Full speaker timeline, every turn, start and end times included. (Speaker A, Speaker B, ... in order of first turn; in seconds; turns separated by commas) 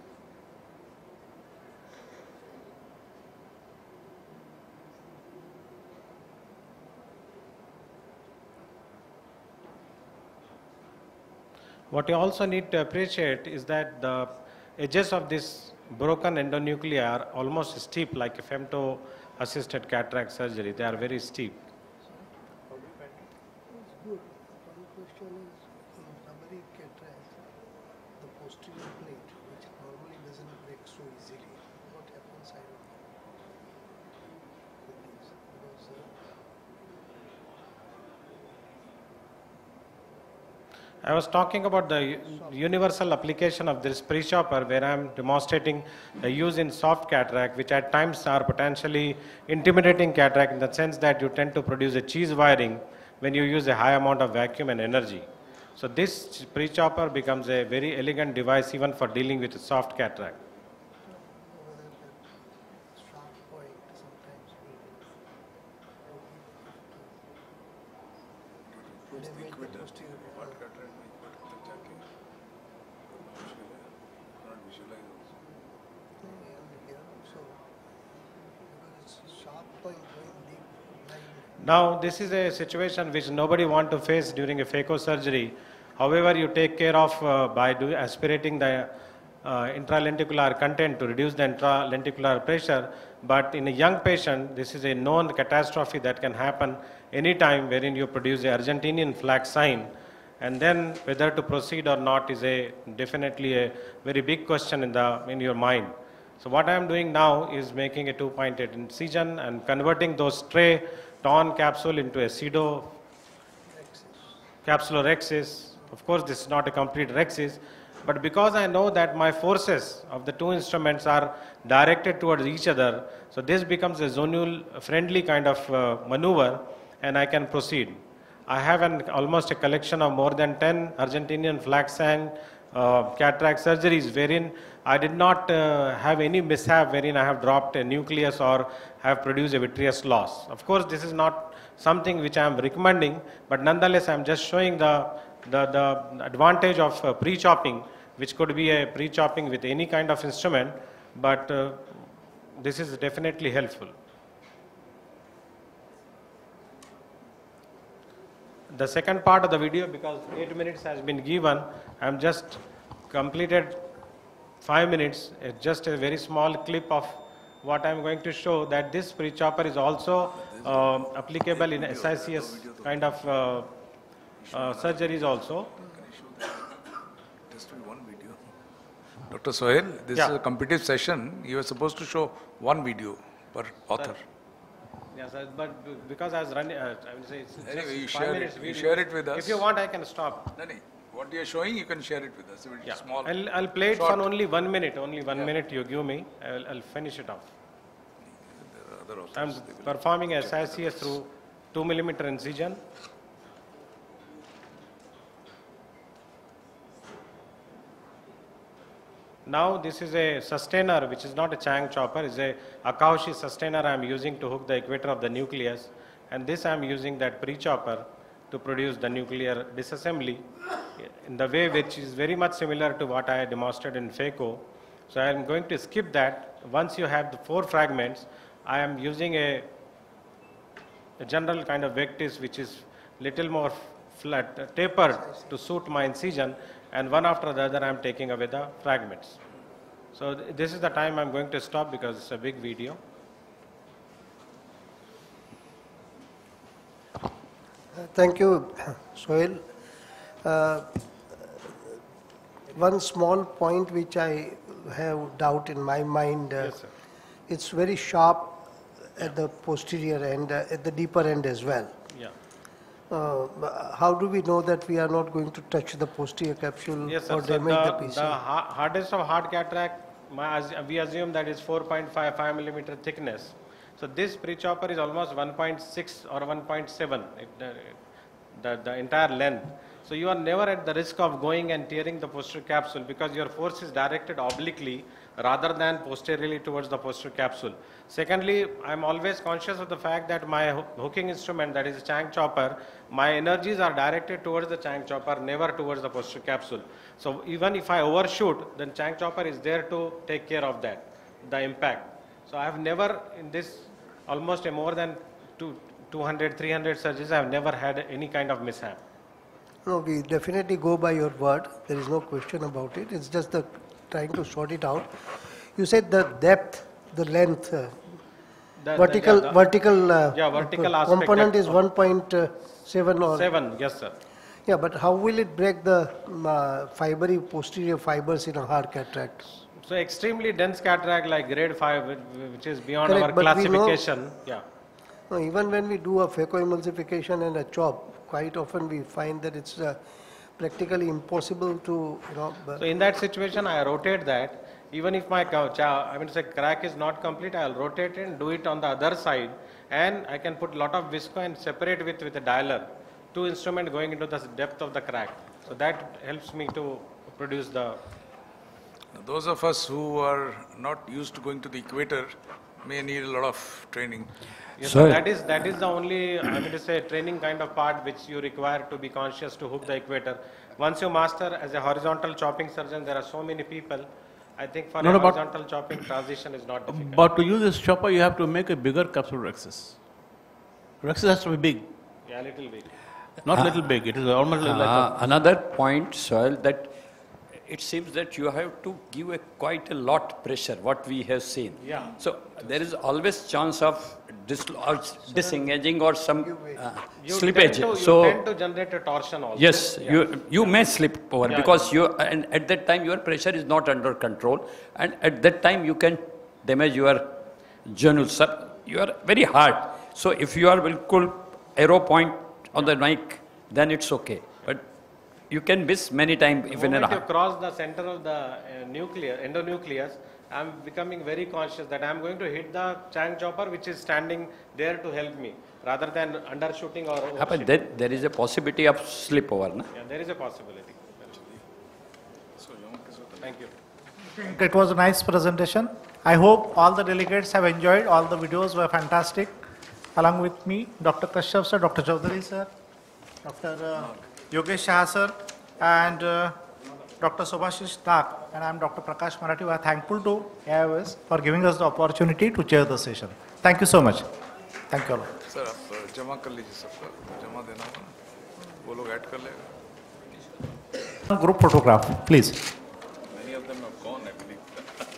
Speaker A: 11.9-21.6, Speaker B: 22.7-23.3, Speaker C: 23.7-27.4, Speaker C: 28.2-32.9, Speaker C: 34.9-36.1, Speaker A: 41.0-55.2, Speaker A: 55.8-60.4, Speaker C: 61.0-62.3, Speaker C: 62.8-65.2, Speaker C: 66.0-67.1, Speaker D: 69.0-72.0, Speaker C: 69.1-70.6, Speaker D: 73.1-73.8, Speaker D: 74.4-75.3, Speaker C: 76.2-77.6, Speaker C: 78.4-81.5, Speaker A: 81.6-88.9, Speaker A: 89.4-112.9, Speaker C: 113.7-114.3, Speaker A: 114.7-152.0, Speaker A: 152.6-153.9, Speaker A: 158.7-162.6, Speaker A: 163.1-163.8, Speaker A: 164.6-173.7, Speaker D: 170.4-173.2, Speaker D: 174.4-176.7, Speaker A: 174.5-175.7, Speaker D: 177.5-178.4, Speaker D: 179.3-184.2, Speaker A: 185.1-190.5, Speaker D: 187.6-189.6, Speaker D: 190.5-194.3, Speaker A: 192.8-197.4, Speaker D: 198.4-201.2, Speaker A: 199.3-202.8, Speaker A: 209.5-220.4, Speaker A: 221.0-229.7, Speaker A: 231.2-239.4, Speaker C: 235.1-235.6, Speaker A: 240.1-243.0, Speaker C: 247.9-249.6, Speaker C: 250.4-250.9, Speaker C: 252.7-256.8, Speaker A: 256.6-256.9, Speaker C: 257.5-258.6, Speaker C: 259.1-261.9, Speaker C: 263.1-268.4, Speaker A: 267.1-278.0, Speaker A: 278.6-309.0, Speaker C: 309.8-315.2, Speaker C: 315.7-318.2, Speaker A: 318.8-319.6, Speaker C: 319.0-323.5, Speaker A: 320.3-321.8, Speaker A: 323.3-324.1, Speaker C: 324.6-329.5, Speaker A: 329.8-334.6, Speaker C: 333.0-334.0, Speaker C: 335.3-340.0, Speaker C: 340.6-342.8, Speaker A: 342.8-358.0, Speaker D: 359.1-364.3, Speaker A: 364.8-374.1, Speaker A: 374.6-377.2, Speaker E: 375.0-375.4, Speaker E: 376.9-379.9, Speaker E: 381.0-381.9, Speaker A: 382.3-382.9, Speaker F: 383.4-383.8, Speaker E: 383.4-385.2, Speaker F: 384.6-387.0, Speaker F: 387.5-398.4, Speaker A: 391.8-392.1, Speaker C: 395.3-395.8, Speaker C: 396.4-396.8, Speaker A: 397.2-400.8, Speaker F: 399.5-414.9, Speaker A: 401.4-401.9, Speaker F: 415.5-417.3, Speaker A: 416.7-427.8, Speaker F: 427.3-429.9, Speaker A: 429.9-431.1, Speaker D: 432.6-433.5, Speaker A: 433.4-433.7, Speaker B: 434.3-439.6, Speaker B: 440.1-442.7, Speaker B: 443.4-446.6, Speaker B: 447.2-454.3, Speaker B: 454.9-455.3, Speaker D: 455.5-458.1, Speaker D: 458.8-459.8, Speaker B: 461.3-462.6, Speaker D: 463.3-464.8